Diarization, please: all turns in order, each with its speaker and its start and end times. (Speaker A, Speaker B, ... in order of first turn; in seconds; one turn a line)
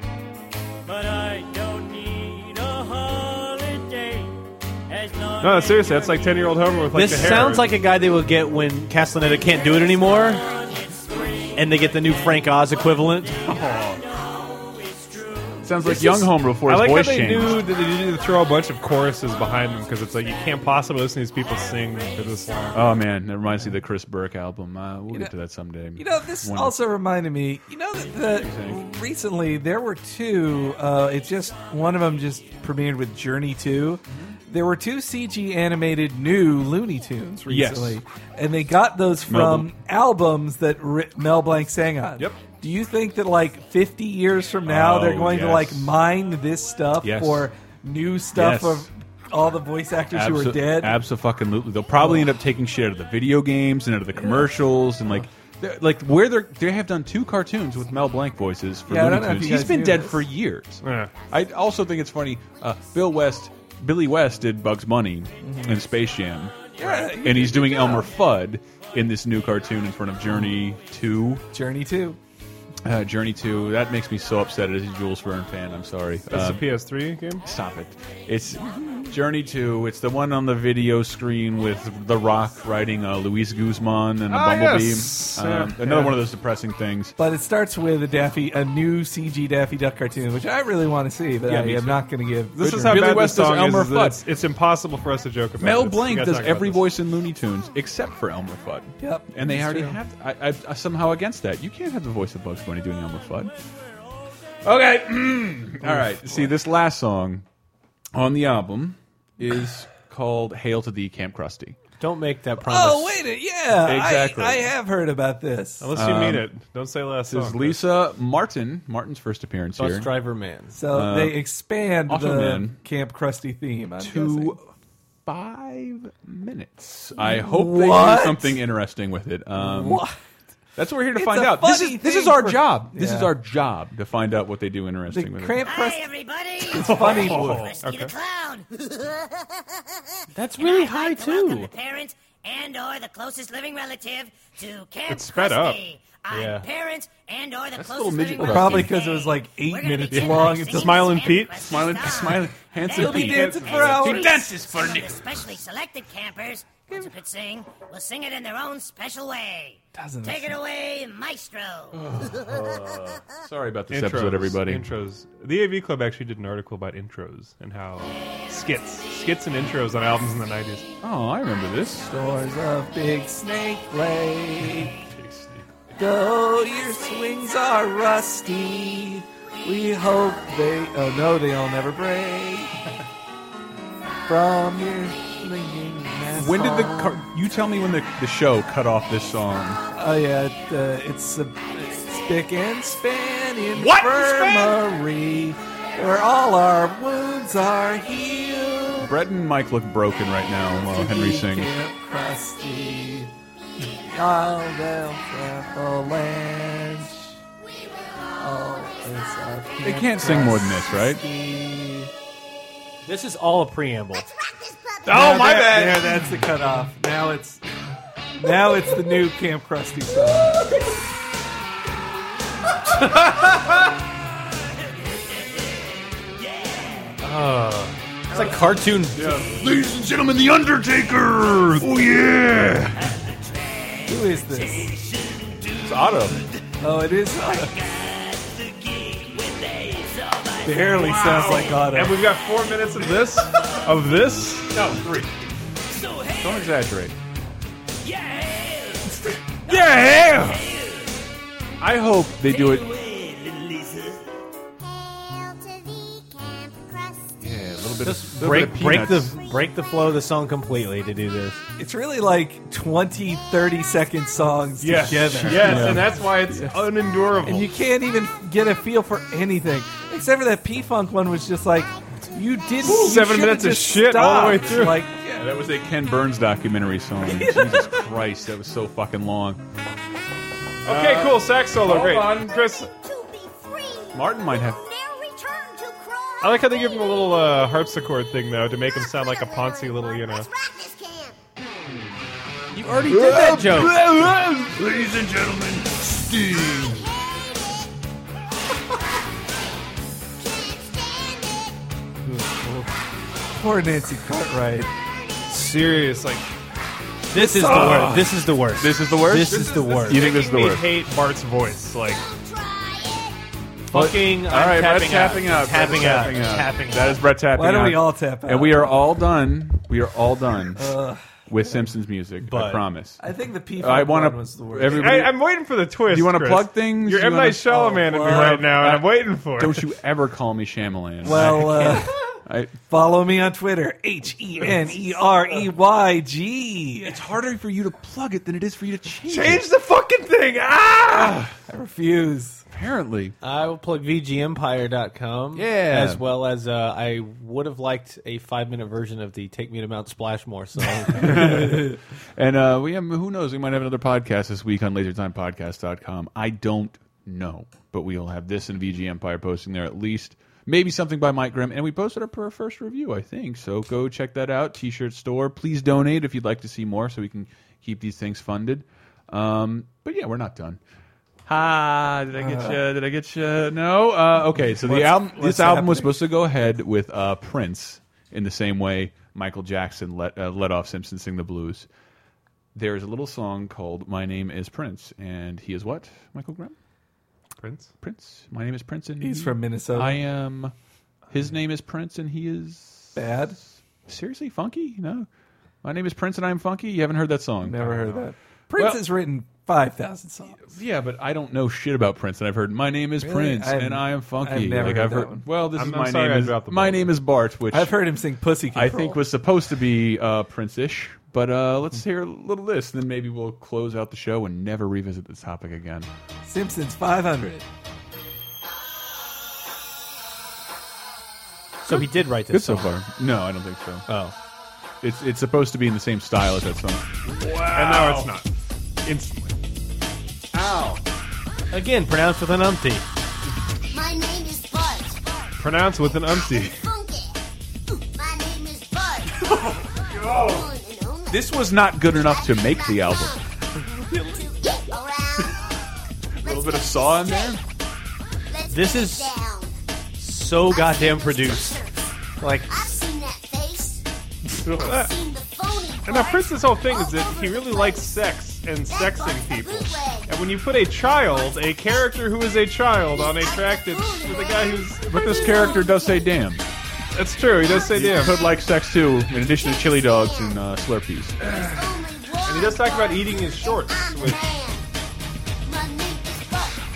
Speaker A: 0.8-7.0
Speaker B: 5.4-7.8
Speaker C: 6.9-10.4
Speaker A: 10.1-15.7
Speaker C: 11.5-13.4
Speaker D: 13.4-14.0
Speaker D: 15.6-17.7
Speaker B: 15.9-23.0
Speaker D: 22.7-26.8
Speaker E: 26.0-51.0
Speaker D: 28.1-28.8
Speaker D: 37.5-38.0
Speaker D: 39.2-39.8
Speaker D: 44.6-46.0
Speaker D: 47.0-47.5
Speaker D: 48.3-48.9
Speaker D: 50.1-71.4
Speaker E: 52.0-52.3
Speaker E: 54.1-54.5
Speaker E: 58.9-60.2
Speaker B: 60.8-61.1
Speaker E: 65.4-65.8
Speaker E: 66.8-68.1
Speaker E: 70.3-70.5
Speaker E: 71.5-72.2
Speaker D: 72.8-76.7
Speaker B: 76.3-77.5
Speaker D: 77.4-87.1
Speaker B: 84.3-86.2
Speaker E: 87.2-93.0
Speaker D: 91.5-92.0
Speaker B: 92.5-96.8
Speaker D: 92.6-94.2
Speaker D: 95.6-103.5
Speaker E: 99.0-100.0
Speaker D: 104.6-107.4
Speaker E: 105.8-106.5
Speaker D: 108.1-111.8
Speaker C: 112.0-113.2
Speaker E: 112.7-115.9
Speaker D: 113.7-114.7
Speaker B: 115.8-117.8
Speaker D: 115.9-116.5
Speaker D: 117.2-120.1
Speaker C: 119.8-120.7
Speaker E: 120.7-124.6
Speaker D: 120.9-121.4
Speaker D: 122.0-122.8
Speaker D: 124.0-124.6
Speaker D: 125.2-130.1
Speaker E: 127.2-128.6
Speaker E: 129.6-130.2
Speaker D: 130.8-135.8
Speaker E: 131.1-133.3
Speaker E: 135.1-136.1
Speaker F: 135.6-163.0
Speaker E: 136.6-137.5
Speaker B: 136.7-138.1
Speaker D: 137.1-137.8
Speaker C: 140.3-141.7
Speaker B: 145.1-145.8
Speaker C: 146.3-146.7
Speaker D: 147.7-149.0
Speaker E: 148.4-151.2
Speaker D: 150.1-150.4
Speaker B: 150.5-151.7
Speaker D: 151.5-155.2
Speaker E: 152.8-154.6
Speaker B: 153.0-154.5
Speaker E: 159.9-160.6
Speaker D: 161.9-164.9
Speaker B: 163.9-170.8
Speaker D: 171.0-172.1
Speaker E: 172.1-174.9
Speaker D: 174.6-175.7
Speaker E: 176.0-182.8
Speaker E: 184.3-187.2
Speaker D: 186.3-189.8
Speaker E: 189.9-199.1
Speaker D: 193.7-194.8
Speaker D: 199.0-201.7
Speaker E: 200.9-203.3
Speaker E: 204.0-207.3
Speaker E: 208.4-212.1
Speaker D: 209.8-211.2
Speaker C: 213.0-214.3
Speaker G: 214.1-215.4
Speaker E: 215.1-217.6
Speaker E: 218.4-220.6
Speaker D: 223.1-223.5
Speaker C: 227.2-229.3
Speaker D: 228.3-233.1
Speaker E: 234.1-234.9
Speaker D: 235.8-236.4
Speaker E: 236.8-237.7
Speaker F: 237.8-240.6
Speaker E: 240.6-242.3
Speaker D: 240.7-241.9
Speaker B: 241.9-244.7
Speaker D: 244.7-245.3
Speaker D: 246.3-247.1
Speaker F: 248.1-248.9
Speaker B: 249.7-250.6
Speaker D: 251.8-252.9
Speaker F: 252.5-254.1
Speaker G: 254.9-257.3
Speaker D: 257.4-259.3
Speaker C: 258.0-261.6
Speaker E: 261.8-266.1
Speaker B: 264.8-267.7
Speaker D: 265.1-266.2
Speaker E: 267.4-275.5
Speaker D: 272.8-273.3
Speaker B: 272.8-275.1
Speaker D: 274.3-279.6
Speaker E: 277.2-278.0
Speaker B: 280.8-282.9
Speaker D: 280.8-282.7
Speaker G: 282.4-287.5
Speaker D: 284.1-284.8
Speaker B: 286.4-290.5
Speaker G: 288.7-291.4
Speaker C: 292.7-294.0
Speaker D: 293.0-297.1
Speaker G: 296.6-297.9
Speaker G: 300.4-301.8
Speaker E: 302.3-302.7
Speaker E: 303.6-304.9
Speaker B: 305.5-306.5
Speaker C: 307.3-310.3
Speaker E: 307.3-308.2
Speaker B: 307.7-308.2
Speaker D: 307.7-310.9
Speaker B: 309.4-312.2
Speaker G: 312.0-313.4
Speaker C: 313.9-317.2
Speaker D: 313.9-320.9
Speaker E: 317.5-319.1
Speaker E: 320.8-321.2
Speaker D: 321.5-323.2
Speaker C: 322.4-322.8
Speaker E: 323.2-325.2
Speaker D: 323.8-325.4
Speaker B: 324.9-329.8
Speaker D: 326.0-327.7
Speaker E: 327.7-328.8
Speaker D: 328.2-332.8
Speaker E: 331.2-332.1
Speaker E: 332.9-337.2
Speaker D: 337.0-339.6
Speaker B: 339.3-341.4
Speaker D: 341.1-341.5
Speaker E: 341.5-342.6
Speaker D: 342.7-343.3
Speaker C: 343.4-351.6
Speaker D: 345.6-346.2
Speaker D: 351.1-370.8
Speaker E: 351.6-351.9
Speaker D: 371.4-381.9
Speaker E: 372.4-372.8
Speaker E: 374.6-376.3
Speaker D: 382.7-386.7
Speaker B: 387.6-387.9
Speaker D: 388.0-390.7
Speaker E: 389.2-390.2
Speaker D: 391.3-393.4
Speaker E: 393.1-393.6
Speaker D: 394.1-395.3
Speaker D: 395.8-398.2
Speaker E: 397.6-400.6
Speaker D: 398.7-399.1
Speaker D: 400.6-408.0
Speaker E: 403.2-405.4
Speaker B: 405.7-407.1
Speaker E: 407.7-409.2
Speaker D: 408.7-416.1
Speaker E: 416.4-417.6
Speaker C: 421.8-422.9
Speaker D: 421.9-424.1
Speaker C: 424.1-424.3
Speaker D: 425.0-428.3
Speaker B: 427.6-428.5
Speaker B: 429.0-429.5
Speaker D: 430.5-431.0
Speaker C: 431.7-433.0
Speaker G: 433.9-437.4
Speaker B: 435.6-436.8
Speaker G: 437.9-441.5
Speaker D: 439.5-440.7
Speaker D: 441.3-443.3
Speaker G: 442.1-443.4
Speaker E: 443.8-444.4
Speaker G: 444.3-445.7
Speaker D: 446.4-447.6
Speaker G: 446.4-447.6
Speaker G: 448.5-449.7
Speaker C: 448.7-449.3
Speaker C: 450.2-451.8
Speaker G: 450.6-452.1
Speaker C: 452.4-452.9
Speaker G: 452.7-454.0
Speaker D: 454.5-455.0
Speaker B: 454.8-455.1
Speaker G: 454.8-458.3
Speaker B: 456.1-465.8
Speaker G: 458.9-460.3
Speaker G: 461.1-462.2
Speaker G: 463.0-466.3
Speaker D: 465.0-466.6
Speaker B: 467.1-468.4
Speaker G: 467.6-468.1
Speaker D: 467.7-471.4
Speaker G: 469.4-470.6
Speaker G: 471.4-474.9
Speaker B: 472.4-474.5
Speaker G: 475.6-476.8